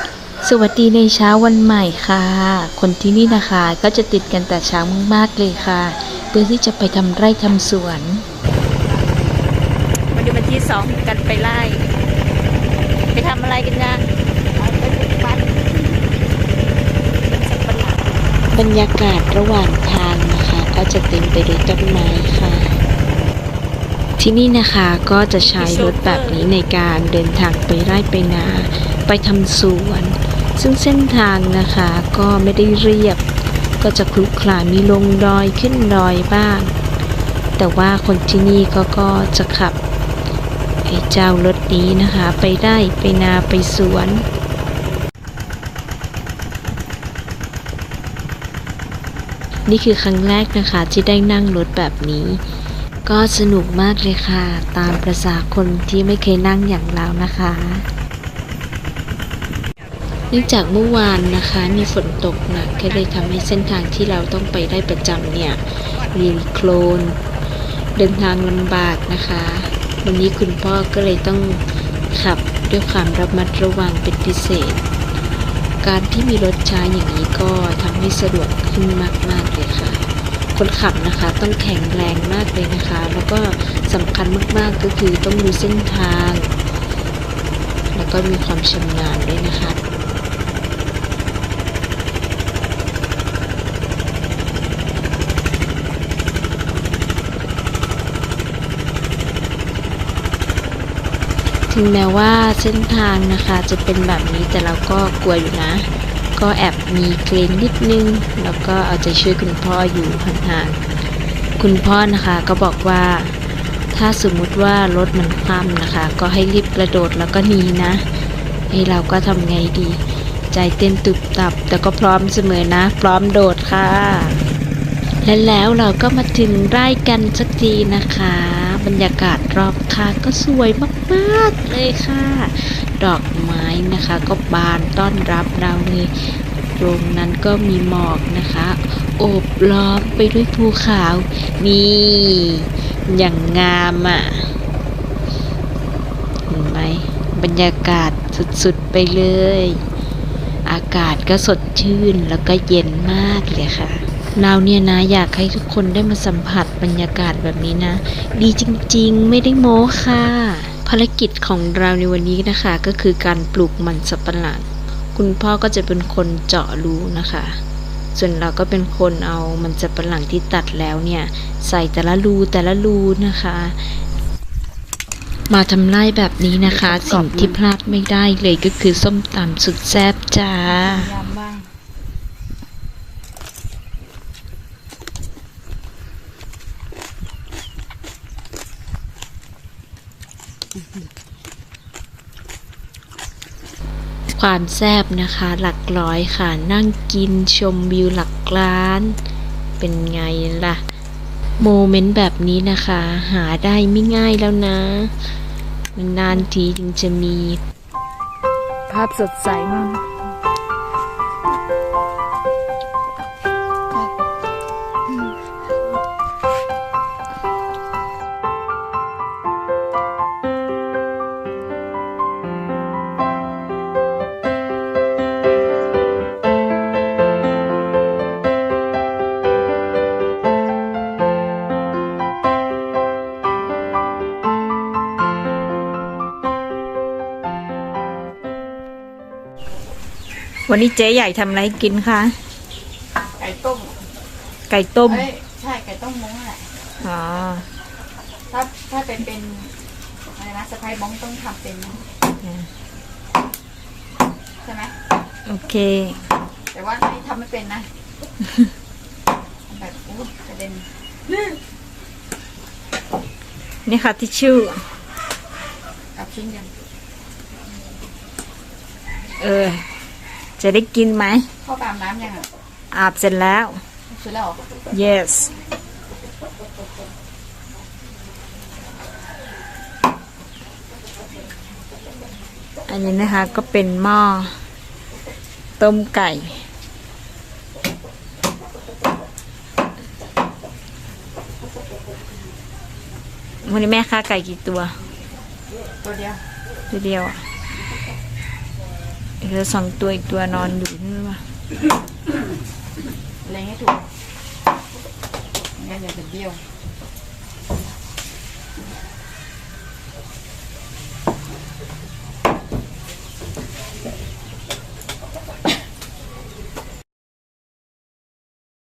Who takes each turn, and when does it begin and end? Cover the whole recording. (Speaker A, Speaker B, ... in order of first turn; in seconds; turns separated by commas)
Speaker A: 0.4-8.2, Speaker B: 10.1-11.8, Speaker B: 13.1-14.1, Speaker C: 14.5-16.1, Speaker C: 17.2-18.1, Speaker A: 18.5-22.7, Speaker A: 24.2-33.2, Speaker B: 25.4-26.4, Speaker A: 33.8-36.7, Speaker A: 37.6-39.8, Speaker A: 40.9-44.2, Speaker A: 49.6-52.4, Speaker A: 53.0-57.9, Speaker A: 60.3-67.2, Speaker A: 67.9-71.6, Speaker A: 72.1-74.8, Speaker A: 75.8-80.0, Speaker A: 80.5-86.5, Speaker A: 87.9-89.8, Speaker A: 101.7-105.8, Speaker A: 106.4-110.8, Speaker A: 111.6-113.3, Speaker A: 113.9-118.0, Speaker A: 118.7-120.0, Speaker A: 120.5-124.4, Speaker A: 125.2-144.5, Speaker A: 146.5-149.8, Speaker A: 150.7-167.6, Speaker A: 168.1-173.8, Speaker A: 175.5-181.1, Speaker C: 176.6-177.6, Speaker C: 180.7-181.7, Speaker A: 194.3-199.2, Speaker A: 199.8-200.8, Speaker A: 201.6-205.1, Speaker A: 205.9-207.6, Speaker C: 208.9-210.0, Speaker B: 240.7-242.3, Speaker C: 243.4-243.9, Speaker B: 244.7-245.3, Speaker C: 245.0-246.7, Speaker B: 247.0-247.7, Speaker C: 248.5-249.7, Speaker C: 250.3-252.0, Speaker B: 252.4-252.7, Speaker C: 254.6-254.9, Speaker B: 255.4-256.2, Speaker C: 256.7-257.9, Speaker C: 259.7-260.9, Speaker B: 263.9-264.8, Speaker C: 266.1-266.7, Speaker B: 269.4-269.9, Speaker B: 270.6-271.5, Speaker C: 271.6-272.4, Speaker B: 272.9-273.8, Speaker C: 274.1-274.6, Speaker B: 274.9-275.5, Speaker B: 282.9-284.5, Speaker B: 285.8-286.6, Speaker B: 293.6-294.9, Speaker C: 296.0-296.4, Speaker B: 296.9-297.4, Speaker B: 299.4-301.4, Speaker C: 303.4-304.1, Speaker C: 305.8-306.6